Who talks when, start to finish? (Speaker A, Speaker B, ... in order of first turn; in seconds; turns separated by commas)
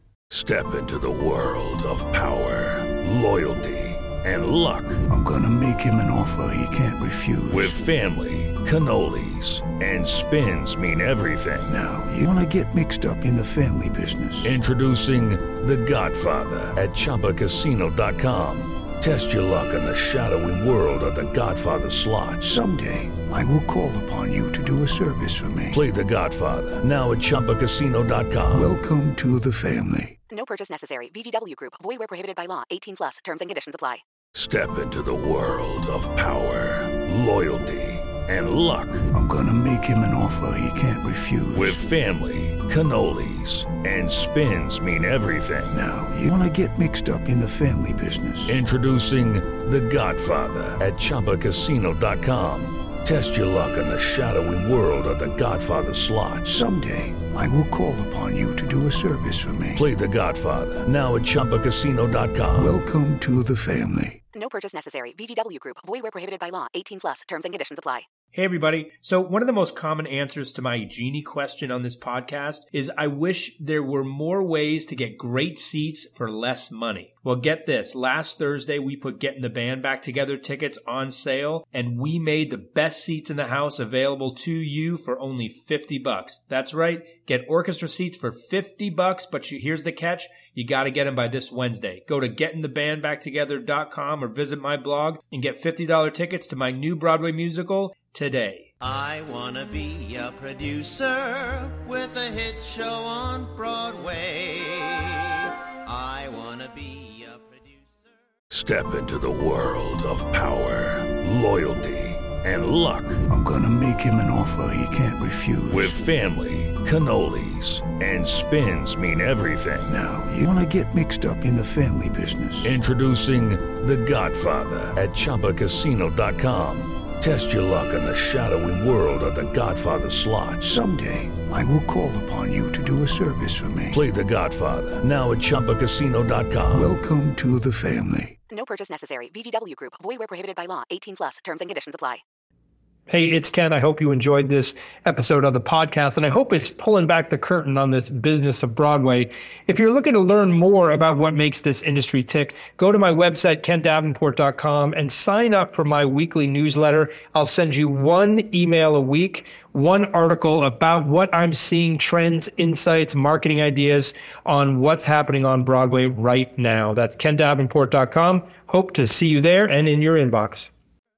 Speaker A: 0.3-5.0, Speaker B: 5.1-7.8, Speaker A: 7.5-11.8, Speaker B: 11.7-14.6, Speaker A: 14.4-22.6, Speaker B: 22.4-25.8, Speaker A: 25.7-28.7, Speaker B: 28.5-30.2, Speaker C: 30.3-34.0, Speaker A: 34.3-39.1, Speaker B: 39.1-41.9, Speaker A: 41.5-45.8, Speaker B: 45.7-48.6, Speaker A: 48.5-56.6, Speaker B: 56.5-59.8, Speaker A: 59.7-62.8, Speaker B: 62.5-64.2, Speaker C: 64.3-68.1, Speaker D: 68.3-98.7, Speaker E: 98.8-108.2, Speaker A: 108.5-113.2, Speaker B: 113.3-116.0, Speaker A: 115.7-120.0, Speaker B: 119.9-122.8, Speaker A: 122.6-130.8, Speaker B: 130.6-134.0, Speaker A: 133.9-136.9, Speaker B: 136.7-138.4, Speaker C: 138.5-142.2, Speaker F: 143.1-170.7